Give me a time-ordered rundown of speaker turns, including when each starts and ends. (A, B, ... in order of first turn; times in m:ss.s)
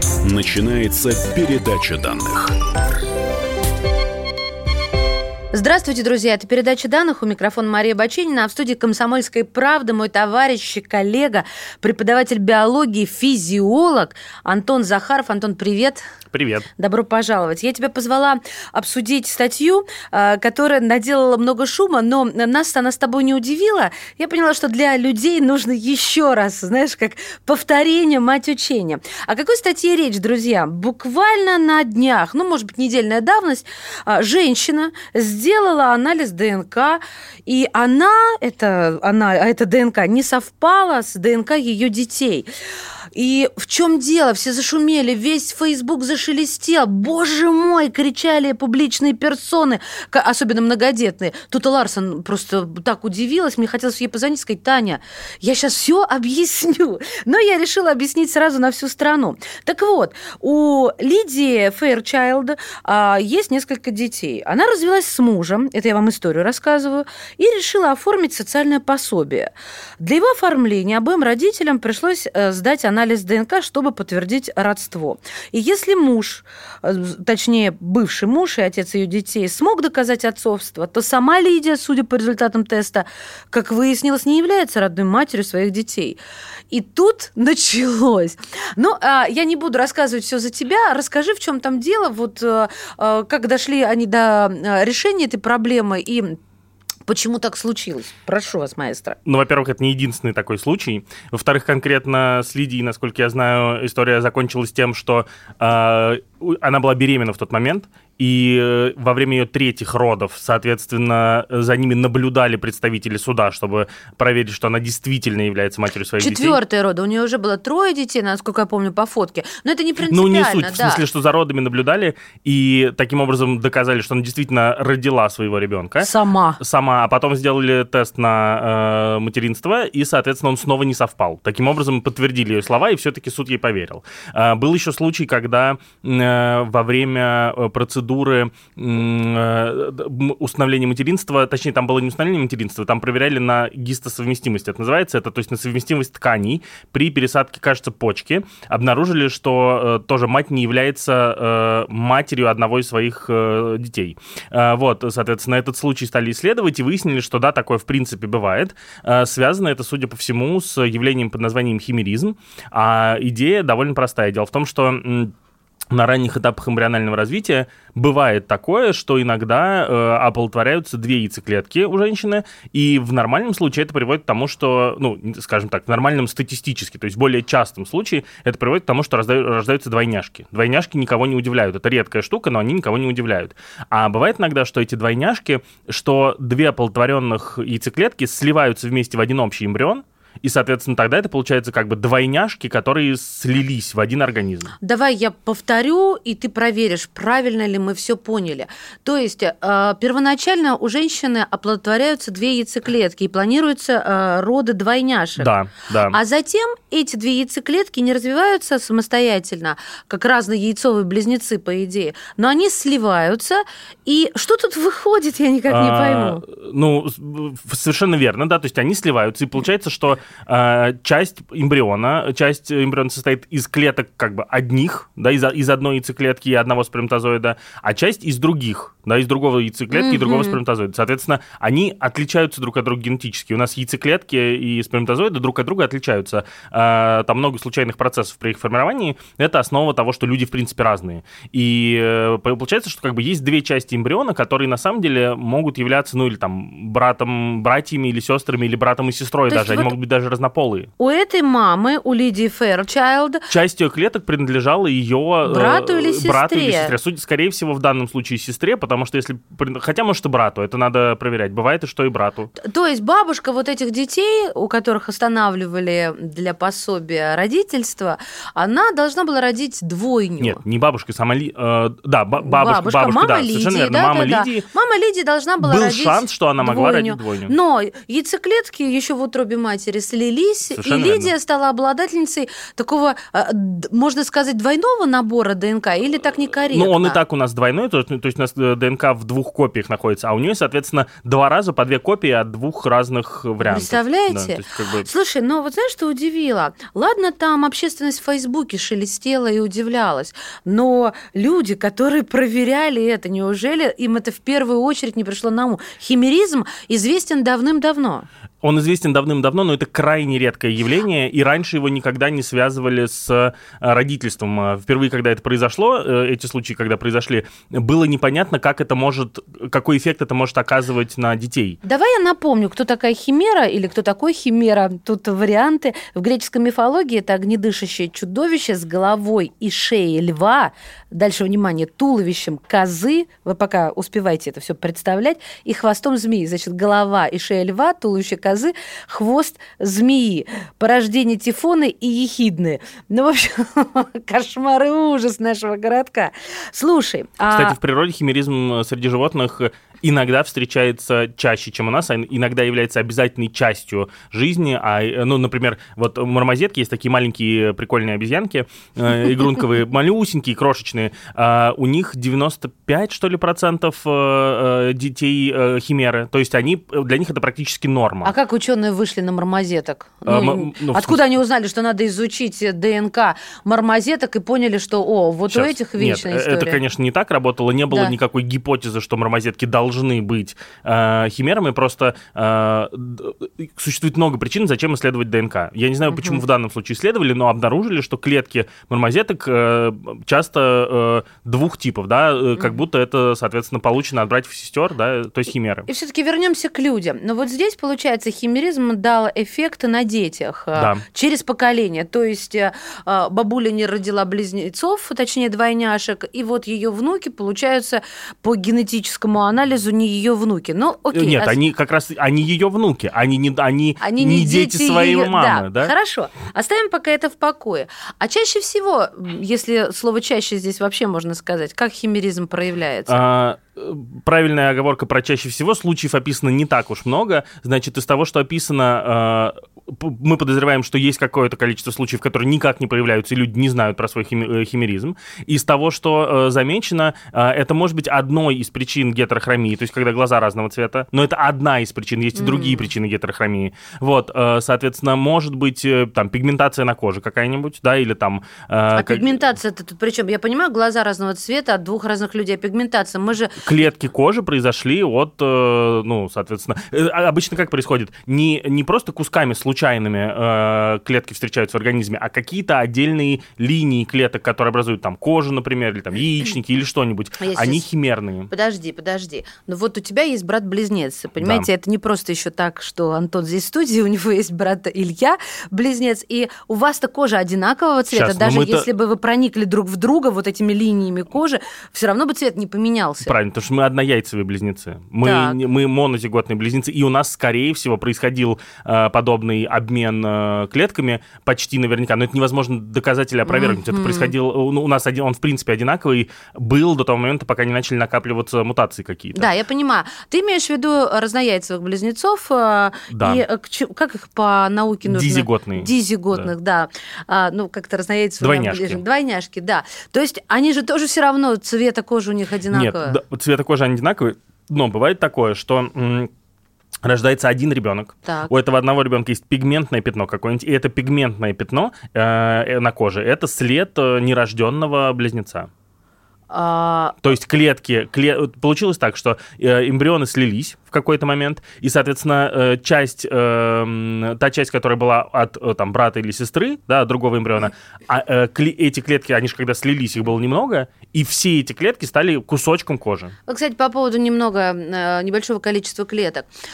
0:00.2-0:02.6 A
0:05.5-0:16.0 B
0:16.3-0:16.7 C
0:16.8-0:42.5 B
0:43.2-1:26.2 B
1:26.7-1:36.4 B
1:37.1-1:39.2 B
1:39.2-1:56.6 C
1:56.2-2:01.0 B
2:00.1-2:45.3 C
2:06.0-2:06.6 B
2:45.9-3:14.7 C
3:14.8-3:25.5 B
3:25.4-3:26.2 C
3:26.1-3:36.4 B
3:35.7-4:10.9 C
3:49.9-3:50.6 B
4:09.5-4:09.9 B
4:11.0-4:13.4 B
4:13.5-4:22.5 C
4:15.4-4:16.9 B
4:22.6-4:30.6 B
4:30.4-4:34.7 C
4:32.4-4:47.2 B
4:35.6-4:37.5 C
4:40.8-4:41.3 C
4:46.7-4:55.1 C
4:53.6-5:08.3 B
5:08.6-5:21.8 C
5:21.8-5:47.8 B
5:47.5-6:08.3 C
6:08.2-6:16.8 B
6:10.3-6:11.2 C
6:15.5-6:35.9 C
6:26.1-6:26.4 B
6:35.9-6:51.6 B
6:40.8-6:41.0 C
6:51.1-6:55.9 C
6:54.0-7:03.2 B
7:03.1-7:29.4 C
7:22.4-7:22.9 B
7:28.9-7:33.6 B
7:33.6-7:48.5 C
7:47.4-7:47.9 B
7:48.5-8:03.3 B
7:51.4-7:51.7 C
7:58.1-7:58.9 C
8:03.2-8:19.5 C
8:05.2-8:05.6 B
8:13.5-8:14.3 B
8:19.4-8:33.2 B
8:23.1-8:23.4 C
8:25.1-8:26.5 C
8:28.4-8:29.0 C
8:32.7-8:36.3 C
8:37.0-8:45.7 C
8:38.2-8:38.5 B
8:46.5-8:47.2 B
8:47.2-9:03.3 C
9:03.5-9:06.5 B